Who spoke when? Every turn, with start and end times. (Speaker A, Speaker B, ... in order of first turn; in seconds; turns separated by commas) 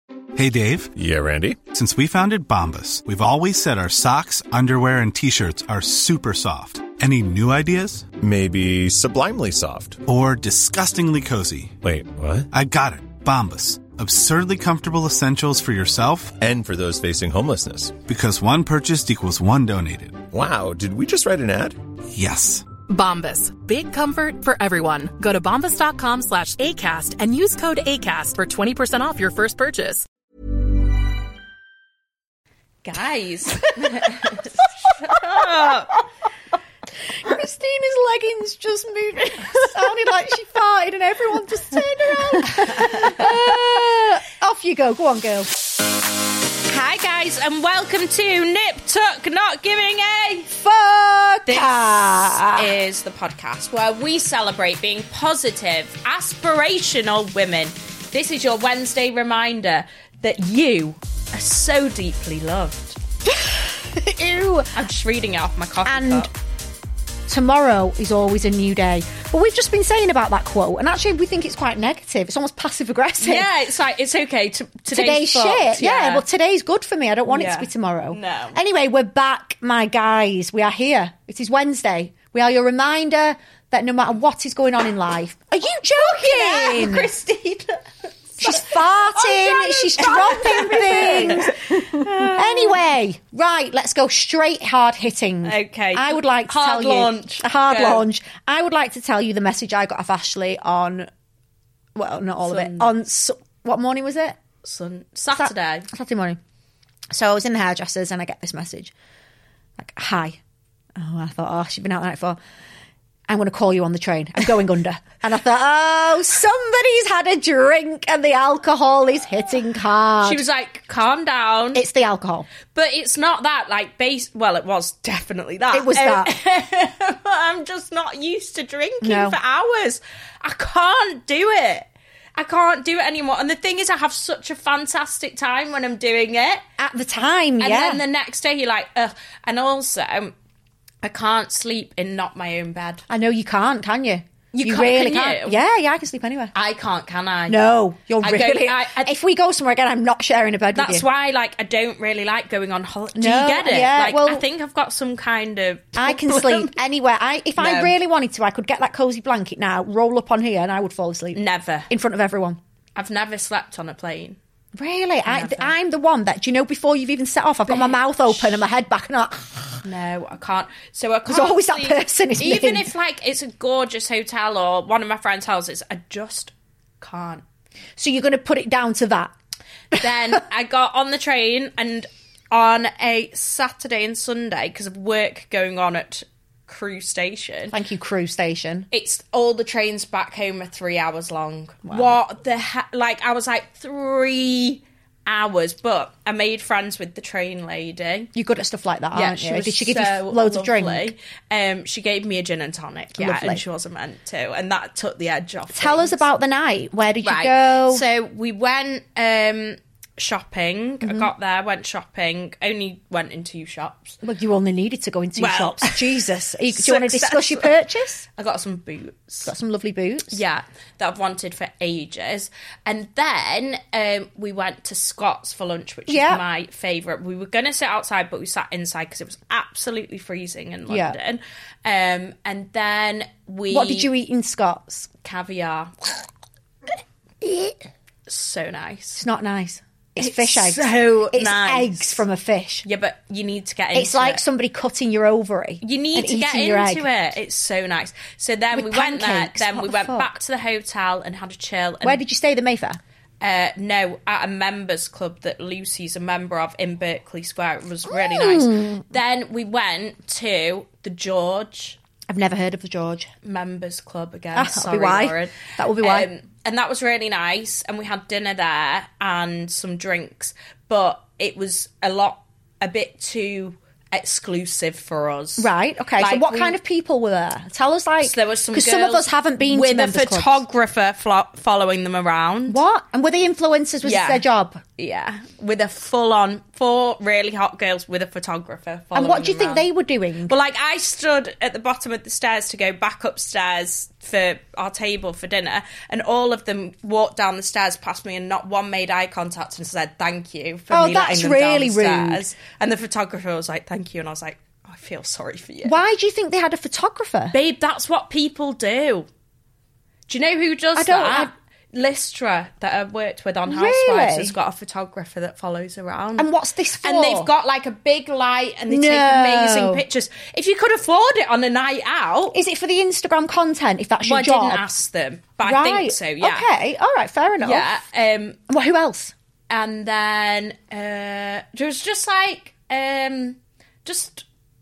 Speaker A: 0.3-0.9, Speaker B: 0.9-1.6, Speaker A: 1.7-8.1, Speaker B: 8.2-10.0, Speaker A: 10.1-11.8, Speaker B: 11.8-12.5, Speaker A: 12.5-16.3, Speaker B: 16.4-18.0, Speaker A: 18.1-20.2, Speaker B: 20.3-21.8, Speaker A: 22.1-22.6, Speaker C: 22.9-30.0, Speaker D: 32.8-35.9, Speaker E: 37.2-45.5, Speaker D: 42.7-43.2, Speaker D: 46.7-50.6, Speaker E: 50.6-52.7, Speaker D: 51.5-63.0, Speaker E: 63.3-64.7, Speaker D: 64.7-66.3, Speaker E: 65.8-66.3, Speaker E: 67.3-73.5, Speaker D: 73.2-76.2, Speaker E: 74.9-87.1, Speaker D: 77.3-78.6, Speaker D: 85.9-87.8, Speaker D: 88.4-92.8, Speaker E: 88.4-101.1, Speaker D: 95.4-98.0, Speaker E: 101.9-104.4, Speaker D: 102.4-102.9, Speaker D: 104.6-105.9, Speaker E: 105.3-106.4, Speaker E: 107.1-108.9, Speaker E: 109.8-110.4, Speaker E: 111.0-112.4, Speaker E: 113.3-120.4, Speaker D: 120.2-121.8, Speaker E: 121.7-122.5, Speaker D: 122.7-136.6, Speaker E: 125.7-126.3, Speaker E: 129.0-129.4, Speaker E: 136.8-138.0, Speaker D: 137.6-140.3, Speaker D: 141.0-143.0, Speaker E: 143.1-146.5, Speaker D: 144.5-145.6, Speaker D: 146.5-147.7, Speaker E: 147.5-151.1, Speaker D: 148.2-149.1, Speaker D: 150.7-156.8, Speaker E: 153.1-154.4, Speaker E: 155.9-162.6, Speaker D: 157.6-157.9, Speaker D: 161.3-161.9, Speaker D: 162.9-164.4, Speaker E: 164.7-169.8, Speaker D: 165.2-165.7, Speaker D: 167.7-168.6, Speaker D: 169.8-177.4, Speaker E: 171.3-172.9, Speaker E: 178.0-179.3, Speaker D: 179.9-187.7, Speaker E: 187.7-188.9, Speaker D: 188.9-198.3, Speaker E: 191.8-192.2, Speaker E: 198.3-201.1, Speaker D: 199.1-206.2, Speaker E: 203.2-203.6, Speaker E: 205.7-208.0, Speaker D: 207.2-214.2, Speaker E: 211.0-211.3, Speaker E: 214.2-218.2, Speaker D: 215.4-217.7, Speaker D: 218.3-219.5, Speaker E: 219.4-220.4, Speaker D: 220.3-234.1, Speaker E: 226.1-226.4, Speaker E: 230.9-231.1, Speaker E: 233.7-235.1, Speaker D: 235.2-235.9, Speaker E: 237.4-237.8, Speaker D: 238.3-239.2, Speaker E: 239.2-242.8, Speaker D: 240.2-242.2, Speaker D: 242.8-244.4, Speaker E: 243.9-247.1, Speaker D: 245.8-252.2, Speaker E: 248.7-250.4, Speaker E: 252.0-253.0, Speaker D: 253.4-262.0, Speaker E: 258.1-259.0, Speaker E: 262.3-263.3, Speaker D: 263.4-276.8, Speaker E: 264.5-266.3, Speaker E: 275.6-280.6, Speaker D: 278.2-282.8, Speaker E: 282.7-284.8, Speaker D: 284.0-284.4, Speaker D: 285.0-289.9, Speaker E: 289.1-290.6, Speaker D: 290.5-306.0, Speaker E: 300.9-302.4, Speaker E: 305.8-307.5, Speaker D: 307.5-309.3, Speaker D: 310.3-316.5, Speaker E: 310.9-311.5, Speaker E: 313.7-314.5, Speaker E: 316.4-317.5, Speaker D: 317.0-322.6, Speaker E: 318.9-320.0, Speaker E: 322.5-324.8, Speaker D: 324.2-326.7, Speaker E: 325.6-327.9, Speaker D: 327.6-328.6, Speaker E: 328.7-329.3, Speaker D: 329.7-334.4